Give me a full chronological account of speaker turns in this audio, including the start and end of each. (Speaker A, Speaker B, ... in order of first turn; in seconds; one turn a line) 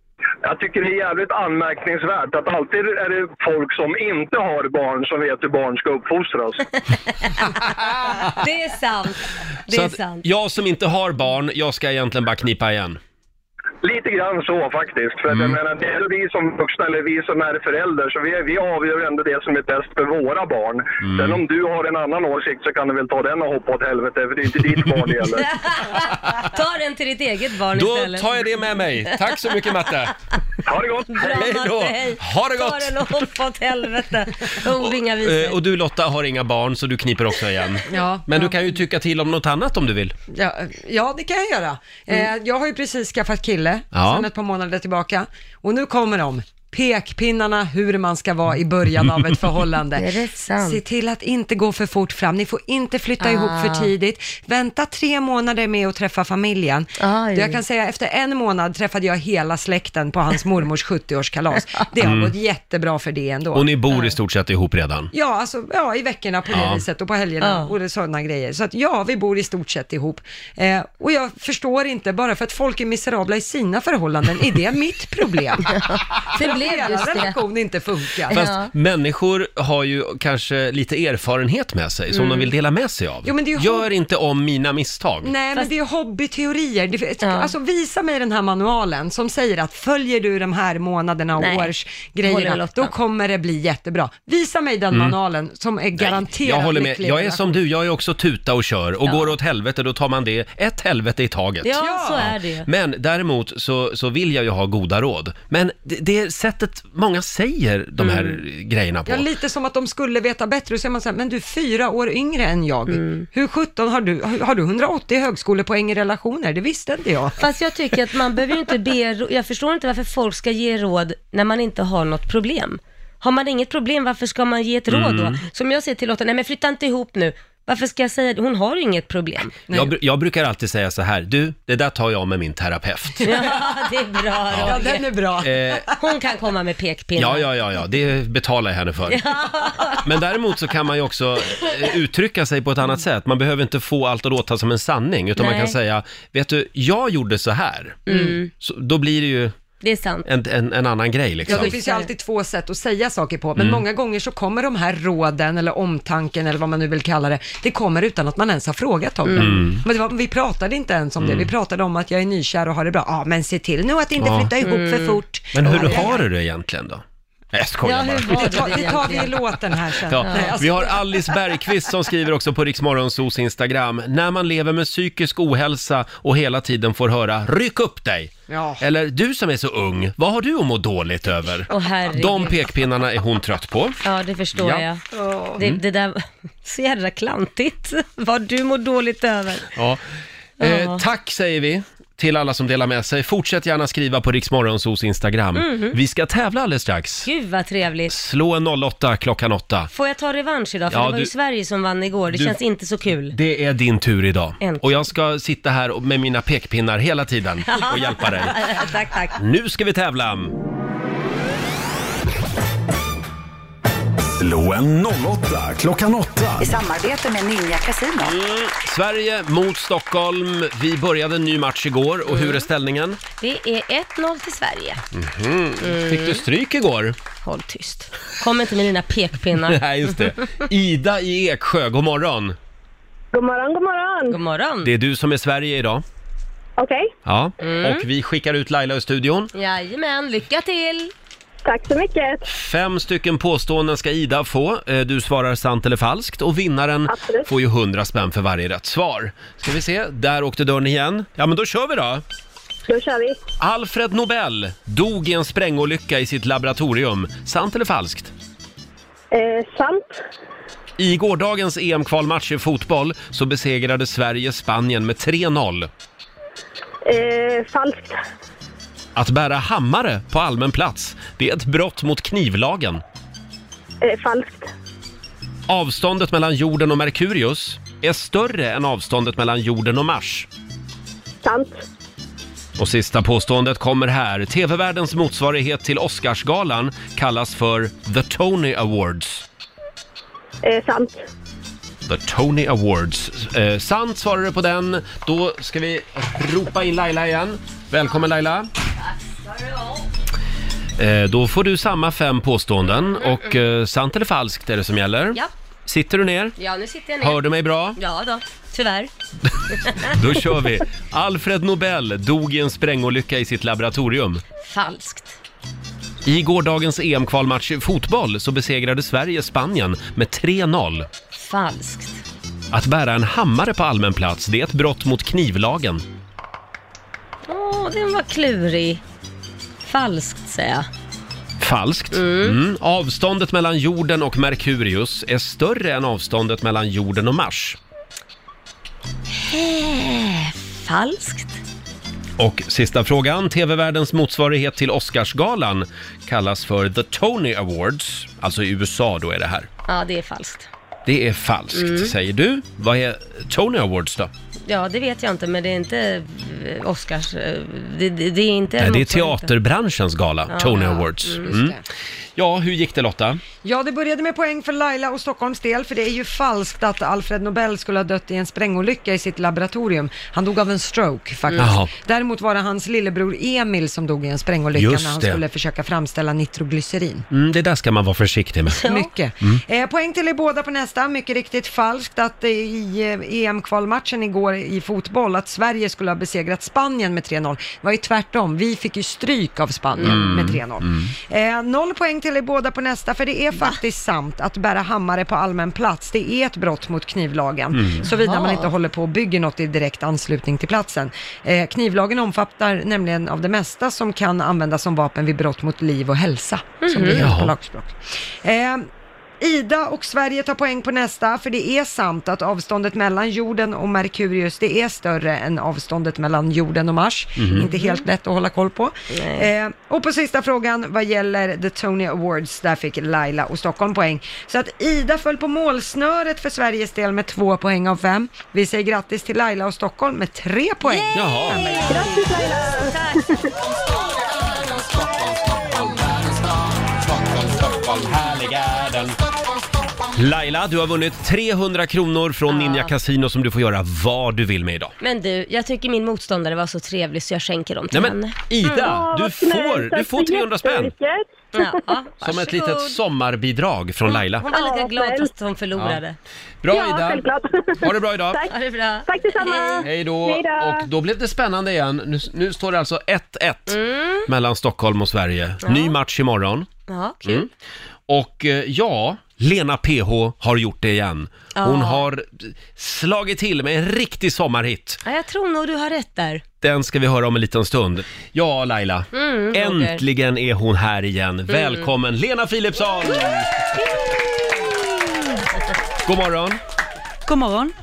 Speaker A: 0.4-6.6
Speaker B: 7.2-10.3
Speaker C: 9.7-13.0
Speaker A: 13.8-25.5
Speaker C: 15.3-15.6
Speaker C: 21.0-21.4
Speaker B: 25.4-28.7
Speaker C: 27.7-30.1
Speaker A: 30.7-31.5
Speaker B: 31.1-35.6
Speaker C: 31.2-33.1
Speaker C: 34.8-40.1
Speaker D: 37.9-38.6
Speaker D: 40.3-63.7
Speaker C: 43.9-44.3
Speaker B: 50.0-50.8
Speaker B: 53.2-53.9
Speaker B: 57.0-57.6
Speaker C: 62.0-62.3
Speaker C: 63.5-65.1
Speaker D: 65.1-78.5
Speaker C: 66.5-66.8
Speaker B: 67.4-67.7
Speaker B: 75.8-77.4
Speaker C: 78.3-85.3
Speaker B: 78.3-78.7
Speaker B: 82.1-82.5
Speaker D: 83.2-83.9
Speaker D: 85.2-97.6
Speaker B: 87.2-87.5
Speaker B: 91.4-91.7
Speaker B: 92.2-92.9
Speaker C: 96.0-109.3
Speaker B: 99.0-99.3
Speaker B: 101.6-102.7
Speaker D: 101.8-102.3
Speaker B: 108.0-108.4
Speaker D: 109.1-117.4
Speaker B: 112.9-113.2
Speaker B: 117.4-129.6
Speaker C: 124.9-125.4
Speaker D: 129.7-129.9
Speaker C: 129.7-133.3
Speaker B: 133.2-135.1
Speaker D: 134.6-135.9
Speaker C: 135.4-135.9
Speaker B: 135.9-137.5
Speaker C: 137.2-139.2
Speaker B: 139.1-140.2
Speaker C: 140.0-149.6
Speaker B: 145.4-145.8
Speaker B: 148.1-148.5
Speaker D: 148.1-148.4
Speaker B: 149.8-150.3
Speaker C: 150.2-151.8
Speaker D: 151.5-166.2
Speaker B: 151.5-152.1
Speaker C: 153.6-153.8
Speaker B: 159.3-159.6
Speaker C: 159.4-159.8
Speaker C: 161.2-161.5
Speaker C: 164.2-164.5
Speaker B: 164.6-166.1
Speaker C: 165.5-169.2
Speaker B: 167.8-169.4
Speaker D: 168.2-171.6
Speaker C: 170.1-184.0
Speaker B: 170.3-170.6
Speaker D: 178.5-178.8
Speaker B: 181.7-182.6
Speaker B: 184.0-185.0
Speaker C: 184.6-184.9
Speaker D: 185.1-185.6
Speaker B: 185.6-189.7
Speaker C: 189.8-190.0
Speaker C: 190.6-197.3
Speaker B: 190.6-191.0
Speaker B: 195.6-196.0
Speaker B: 197.2-198.1
Speaker C: 198.1-199.9
Speaker B: 199.9-203.3
Speaker C: 200.9-201.3
Speaker C: 202.3-202.6
Speaker C: 203.3-208.6
Speaker B: 204.6-205.1
Speaker B: 207.7-209.4
Speaker C: 209.4-210.5
Speaker E: 214.4-216.9
Speaker F: 216.7-218.2
Speaker C: 218.2-223.2
Speaker B: 222.3-222.6
Speaker B: 223.4-225.0
Speaker C: 225.1-227.2
Speaker B: 225.8-226.4
Speaker B: 227.4-229.8
Speaker C: 229.7-232.6
Speaker G: 233.3-234.4
Speaker B: 234.3-234.9
Speaker C: 234.8-236.0
Speaker G: 236.8-237.1
Speaker C: 237.2-239.5
Speaker B: 237.6-238.0
Speaker B: 239.5-241.1
Speaker G: 241.7-242.4
Speaker C: 242.5-252.2
Speaker G: 247.1-247.5
Speaker G: 252.9-253.4
Speaker C: 253.6-258.3
Speaker G: 259.3-260.2
Speaker C: 261.0-265.9
Speaker G: 267.1-268.2
Speaker C: 269.2-273.0
Speaker G: 274.0-274.7
Speaker C: 275.7-280.5
Speaker G: 281.4-281.8
Speaker C: 282.8-289.4
Speaker G: 290.6-291.2
Speaker C: 292.1-298.7
Speaker B: 299.4-300.1
Speaker C: 301.0-306.6
Speaker B: 306.6-307.4
Speaker C: 307.2-308.0
Speaker B: 308.0-309.1
Speaker B: 309.7-310.1
Speaker C: 310.0-314.4
Speaker B: 314.6-315.4
Speaker C: 316.2-321.1
Speaker B: 321.4-322.2
Speaker C: 322.7-326.0
Speaker B: 327.5-329.0
Speaker B: 329.8-330.9
Speaker C: 331.6-337.8
Speaker B: 332.1-332.6
Speaker B: 339.3-341.6
Speaker C: 342.4-349.7
Speaker B: 349.9-350.7
Speaker C: 351.1-354.3
Speaker B: 351.7-352.1
Speaker B: 354.7-359.5
Speaker C: 358.8-361.8
Speaker B: 360.5-361.6
Speaker D: 361.4-361.8
Speaker C: 362.4-363.4
Speaker D: 363.6-377.3
Speaker C: 371.6-371.9
Speaker C: 374.8-375.4
Speaker C: 377.3-378.8
Speaker B: 378.7-379.1
Speaker D: 378.8-408.9
Speaker C: 390.0-391.1
Speaker C: 397.7-398.0
Speaker B: 398.1-398.7
Speaker B: 406.8-407.3
Speaker C: 407.1-407.5
Speaker D: 409.4-432.3
Speaker C: 417.4-417.7
Speaker B: 417.6-418.1
Speaker B: 419.1-419.5
Speaker B: 430.9-433.3
Speaker C: 431.1-431.6
Speaker G: 431.9-433.5
Speaker C: 434.7-439.2
Speaker C: 440.1-444.9
Speaker B: 442.5-442.9
Speaker B: 445.0-448.9
Speaker C: 447.9-450.9
Speaker G: 448.6-451.8
Speaker B: 451.5-453.0
Speaker C: 452.2-454.5
Speaker B: 454.1-456.2
Speaker G: 454.5-455.3
Speaker C: 455.8-456.0
Speaker C: 456.6-457.3
Speaker G: 456.7-458.5
Speaker C: 457.8-458.4
Speaker B: 458.5-459.9
Speaker G: 459.1-460.9
Speaker C: 459.8-466.7
Speaker B: 463.7-464.3
Speaker B: 465.6-466.0
Speaker B: 466.9-467.5
Speaker C: 468.1-475.0
Speaker B: 471.6-472.1
Speaker B: 475.1-476.4
Speaker C: 476.6-483.5
Speaker B: 479.1-480.0
Speaker B: 481.5-481.9
Speaker C: 486.1-486.6
Speaker F: 487.3-487.7